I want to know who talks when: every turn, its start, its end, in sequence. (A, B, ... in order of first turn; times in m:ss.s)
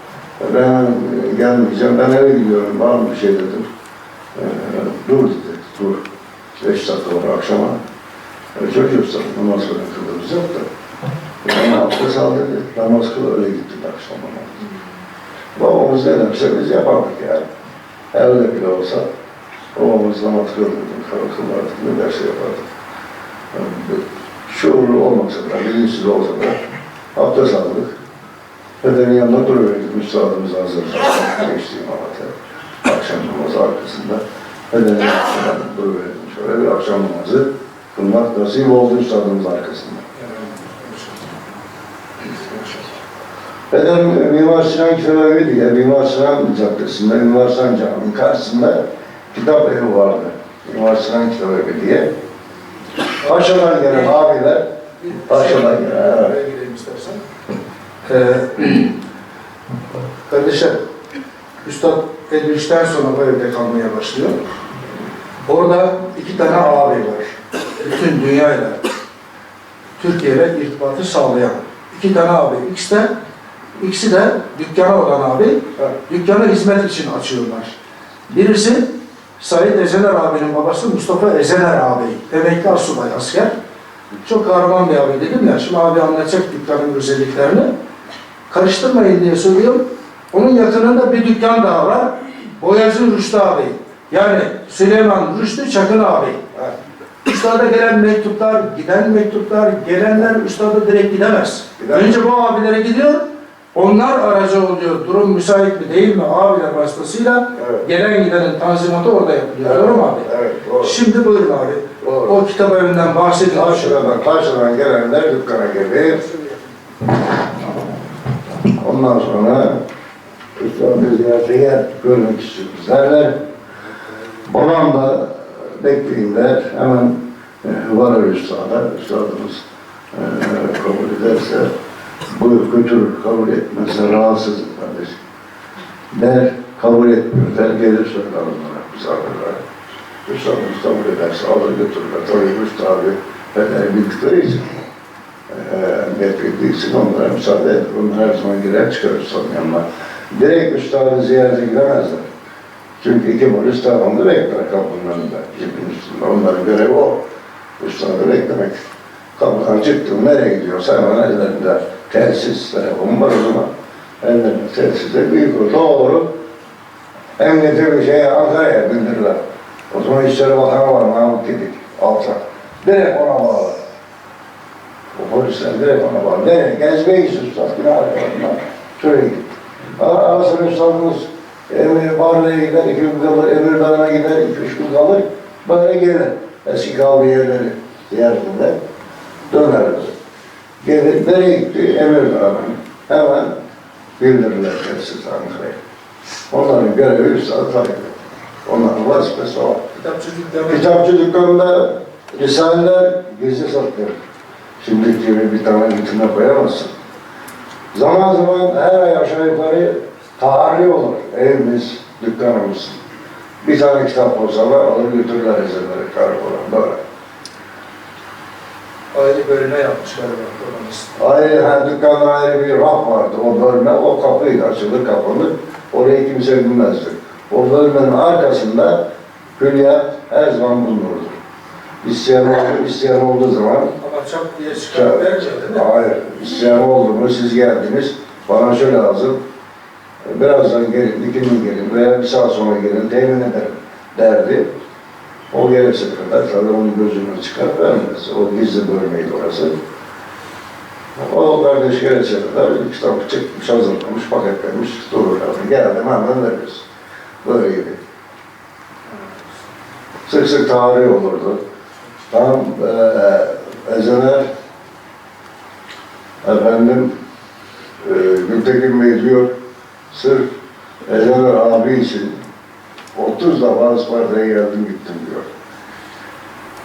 0:00.4-0:03.6 A
0:04.3-0:06.0 A
0:06.6-0:07.8 A
0:08.6-0:10.6 A
0:11.4-0:14.6 A
0:15.6-0:17.4 A
0:18.1-0:19.0 A
0:19.7-0:22.7 A
0:23.5-0:26.6 A
0:27.2-0:27.9 A
0:28.8-0:32.3 A
0:32.8-0:40.0 A
0:40.2-0:41.3 B
0:42.2-0:42.6 B
0:43.7-0:52.1 A
0:53.2-0:54.6 A
0:53.2-0:54.1 B
0:55.0-0:57.2 B
0:55.3-0:56.3 A
0:58.0-0:58.9 B
1:00.3-1:00.8 B
1:01.6-1:04.4 B
1:05.4-1:08.8 B
1:10.0-1:13.1 B
1:13.8-1:17.7 B
1:18.3-1:23.5 B
1:24.2-1:27.7 B
1:28.5-1:36.4 B
1:37.2-1:43.2 B
1:41.8-1:42.2 A
1:43.7-1:50.3 B
1:47.6-1:47.9 A
1:49.6-1:51.0 A
1:50.8-1:54.0 B
1:52.0-1:52.4 A
1:53.5-1:56.2 A
1:58.8-1:59.8 A
2:00.6-2:03.4 A
2:04.4-2:11.7 A
2:12.3-2:15.2 A
2:16.1-2:19.6 A
2:20.2-2:24.7 A
2:25.5-2:32.3 A
2:33.0-2:37.2 A
2:37.8-2:43.7 A
2:44.2-2:46.3 A
2:47.4-2:49.4 A
2:49.9-2:53.8 A
2:55.1-3:08.8 A
3:09.5-3:10.1 A
3:10.8-3:13.5 A
3:14.2-3:15.8 A
3:16.5-3:19.8 A
3:19.9-3:20.9 B
3:20.6-3:24.2 A
3:24.8-3:26.9 A
3:27.9-3:33.0 A
3:33.6-3:37.0 A
3:39.1-3:41.2 B
3:41.2-3:49.0 A
3:49.6-3:51.4 A
3:52.0-3:53.9 A
3:54.0-3:55.8 B
3:54.9-3:59.4 A
4:00.2-4:04.7 A
4:05.5-4:09.8 A
4:11.2-4:16.8 A
4:17.4-4:18.0 A
4:20.3-4:21.6 A
4:22.3-4:24.5 A
4:26.4-4:27.1 A
4:28.0-4:29.5 A
4:30.1-4:30.5 A
4:31.0-4:32.3 A
4:33.1-4:35.5 A